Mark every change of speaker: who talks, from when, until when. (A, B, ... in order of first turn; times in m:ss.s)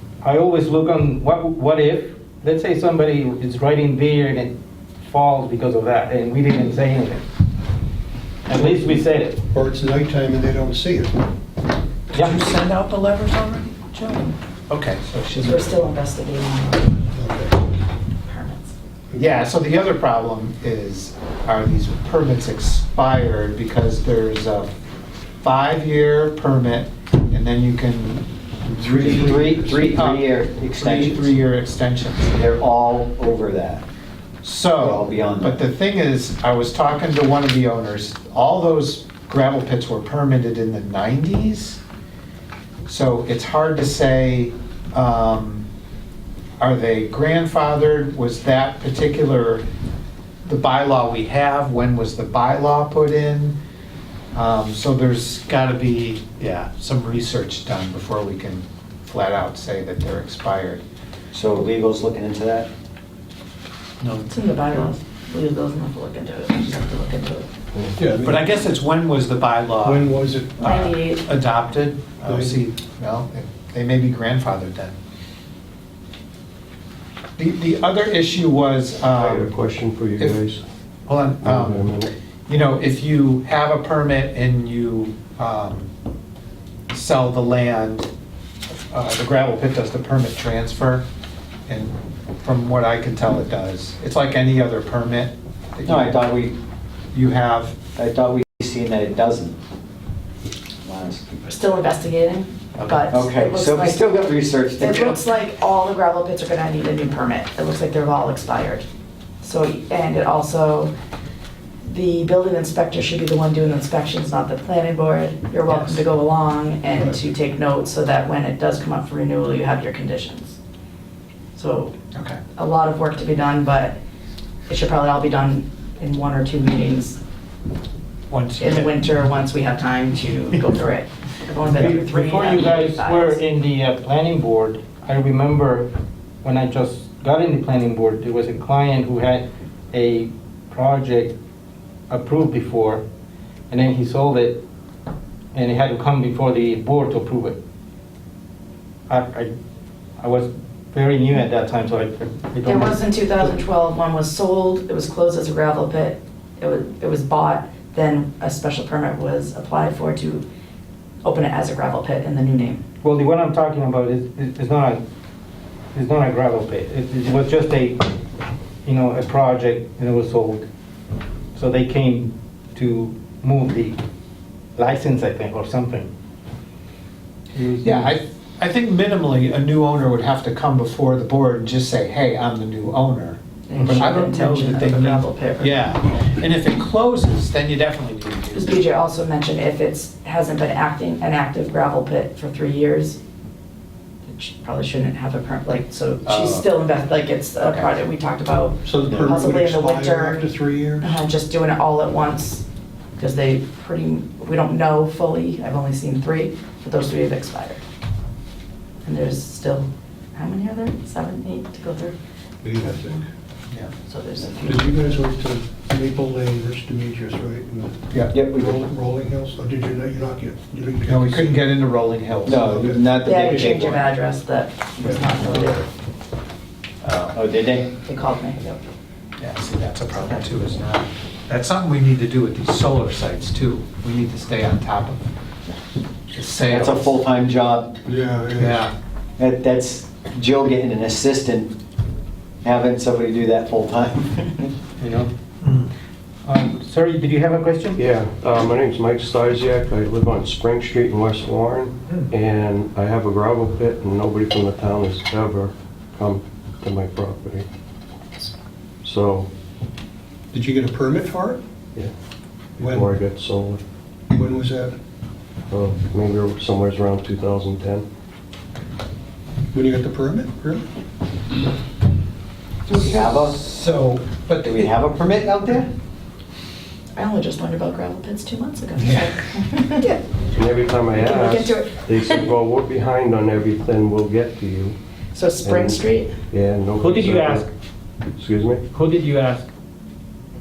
0:00.2-0:07.2 A
0:08.5-0:09.4 A
0:08.5-0:09.0 B
0:09.5-0:11.2 B
0:12.1-0:15.8 C
0:15.5-0:17.1 D
0:17.1-0:17.5 B
0:18.2-0:18.8 D
0:19.2-0:24.7 C
0:25.4-0:32.4 C
0:28.7-0:29.8 B
0:28.9-0:31.4 E
0:32.3-0:33.8 E
0:34.4-0:41.8 C
0:34.8-0:35.6 E
0:42.9-0:45.7 C
0:46.6-0:49.6 C
0:50.4-0:53.6 C
0:54.3-1:00.8 C
1:01.3-1:02.7 E
1:04.0-1:04.3 C
1:04.3-1:07.5 D
1:08.0-1:08.4 B
1:08.2-1:15.0 C
1:09.8-1:10.7 B
1:10.6-1:11.3 D
1:12.2-1:12.6 B
1:17.4-1:19.5 C
1:19.1-1:20.6 F
1:21.1-1:25.9 C
1:21.4-1:22.1 F
1:26.9-1:28.1 C
1:28.9-1:31.0 C
1:31.7-1:36.3 C
1:35.9-1:36.6 E
1:37.1-1:37.8 C
1:37.9-1:39.6 E
1:40.8-1:41.5 E
1:41.5-1:44.1 D
1:43.1-1:45.3 E
1:44.8-1:48.8 D
1:49.4-1:50.9 D
1:51.8-2:00.6 D
1:55.7-1:56.0 C
2:01.6-2:01.9 D
2:02.1-2:02.4 C
2:02.6-2:04.0 D
2:04.7-2:07.2 D
2:08.3-2:08.9 C
2:08.6-2:13.4 D
2:11.6-2:15.9 A
2:16.4-2:21.4 A
2:22.1-2:23.0 A
2:23.7-2:24.6 A
2:25.5-2:27.6 A
2:29.1-2:29.6 A
2:30.2-2:33.0 A
2:32.6-2:40.4 D
2:41.2-2:42.8 D
2:43.0-2:45.0 A
2:45.9-2:48.0 A
2:48.8-2:50.7 A
2:51.6-2:54.0 A
2:54.8-2:56.1 A
2:57.6-2:58.1 A
2:57.8-3:03.4 C
3:03.7-3:05.9 D
3:03.8-3:04.1 A
3:03.9-3:08.8 C
3:08.5-3:13.2 D
3:14.2-3:20.5 D
3:16.3-3:16.6 C
3:18.8-3:21.2 B
3:21.0-3:22.6 D
3:23.2-3:27.8 D
3:29.0-3:32.2 D
3:32.6-3:33.3 B
3:34.0-3:35.2 D
3:34.6-3:41.7 B
3:38.3-3:38.8 E
3:41.1-3:42.8 C
3:42.4-3:44.1 E
3:42.6-3:43.8 B
3:43.2-3:45.9 D
3:47.0-3:47.4 C
3:47.3-3:48.0 E
3:48.0-3:48.8 D
3:49.4-3:55.2 C
3:56.3-3:57.2 C
3:56.7-3:58.0 E
3:58.0-3:58.9 B
3:58.6-3:58.9 C
3:59.4-4:01.7 E
4:02.6-4:04.7 E
4:05.0-4:05.3 A
4:05.6-4:05.9 C
4:06.4-4:08.0 A
4:08.0-4:17.7 F
4:19.0-4:19.5 F
4:20.5-4:21.6 B
4:22.8-4:23.2 B
4:22.8-4:23.8 F
4:24.3-4:25.0 B
4:25.7-4:28.0 F
4:29.7-4:30.8 B
4:32.9-4:34.9 C
4:33.0-4:33.7 E
4:34.6-4:35.9 E
4:37.2-4:40.2 D
4:39.0-4:39.3 C
4:40.5-4:45.0 F
4:41.2-4:42.4 D
4:45.3-4:46.3 D
4:45.6-4:47.7 F
4:47.0-4:47.7 A
4:48.4-4:48.8 F
4:48.9-4:49.6 A